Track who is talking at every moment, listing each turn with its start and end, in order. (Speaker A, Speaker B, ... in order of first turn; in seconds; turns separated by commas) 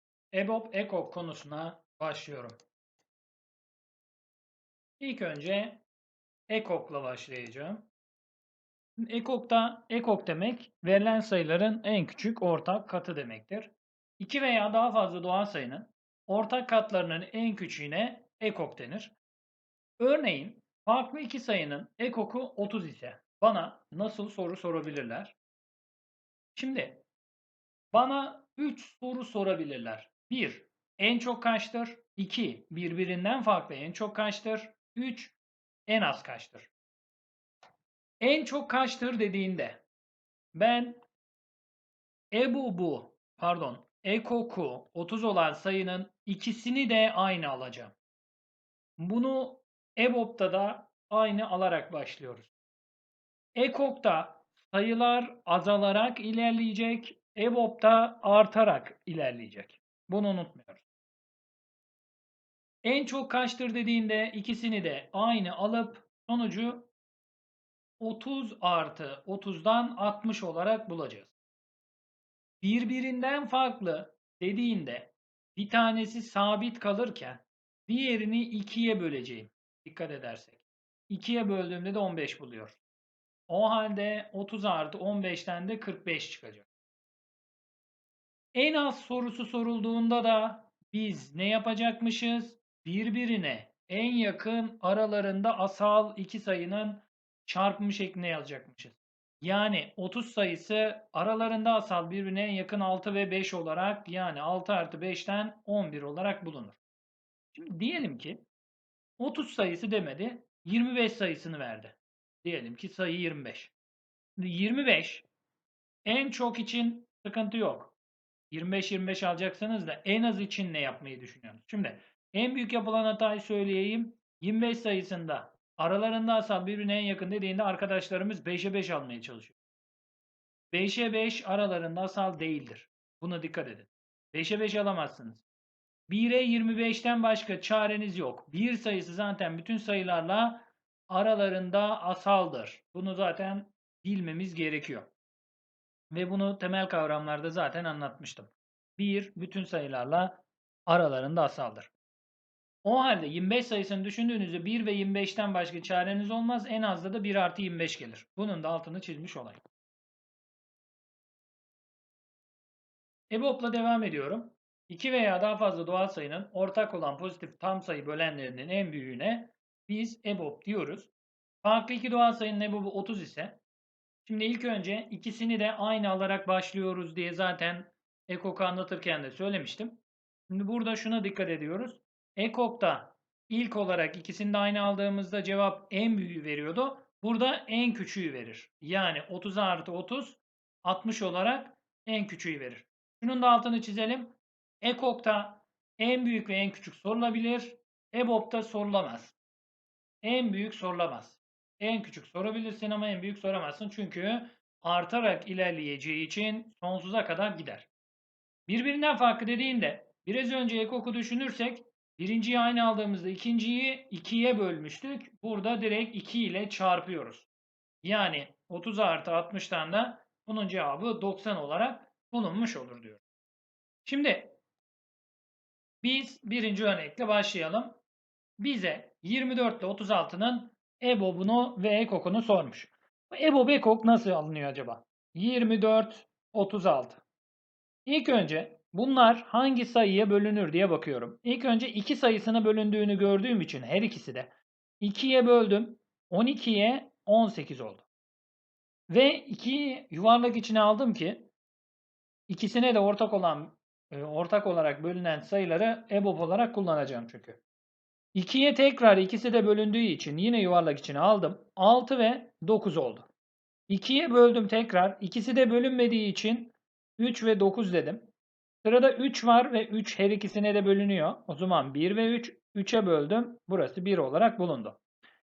Speaker A: 0.3-2.5, Speaker A: 5.0-5.8, Speaker A: 6.5-7.9, Speaker A: 9.0-19.1, Speaker A: 20.0-25.4, Speaker A: 26.6-27.0, Speaker A: 27.9-35.4, Speaker A: 35.9-36.7, Speaker A: 38.2-39.8, Speaker A: 40.5-41.0, Speaker A: 42.3-48.0, Speaker A: 49.0-52.5, Speaker A: 53.5-60.8, Speaker A: 62.8-66.9, Speaker A: 68.0-71.3, Speaker A: 72.6-82.8, Speaker A: 83.5-86.7, Speaker A: 88.5-106.8, Speaker A: 107.5-108.4, Speaker A: 109.2-113.7, Speaker A: 114.4-115.2, Speaker A: 116.0-118.0, Speaker A: 118.5-129.6, Speaker A: 130.7-135.4, Speaker A: 136.1-145.1, Speaker A: 146.1-151.9, Speaker A: 152.8-159.6, Speaker A: 163.3-171.1, Speaker A: 171.6-173.6, Speaker A: 174.2-180.0, Speaker A: 180.5-199.3, Speaker A: 200.2-207.9, Speaker A: 208.7-217.5, Speaker A: 218.0-223.2, Speaker A: 224.1-224.6, Speaker A: 226.0-228.0, Speaker A: 228.6-237.2, Speaker A: 238.1-248.1, Speaker A: 249.1-251.5, Speaker A: 252.5-257.6, Speaker A: 258.3-263.3, Speaker A: 263.9-268.3, Speaker A: 268.8-275.0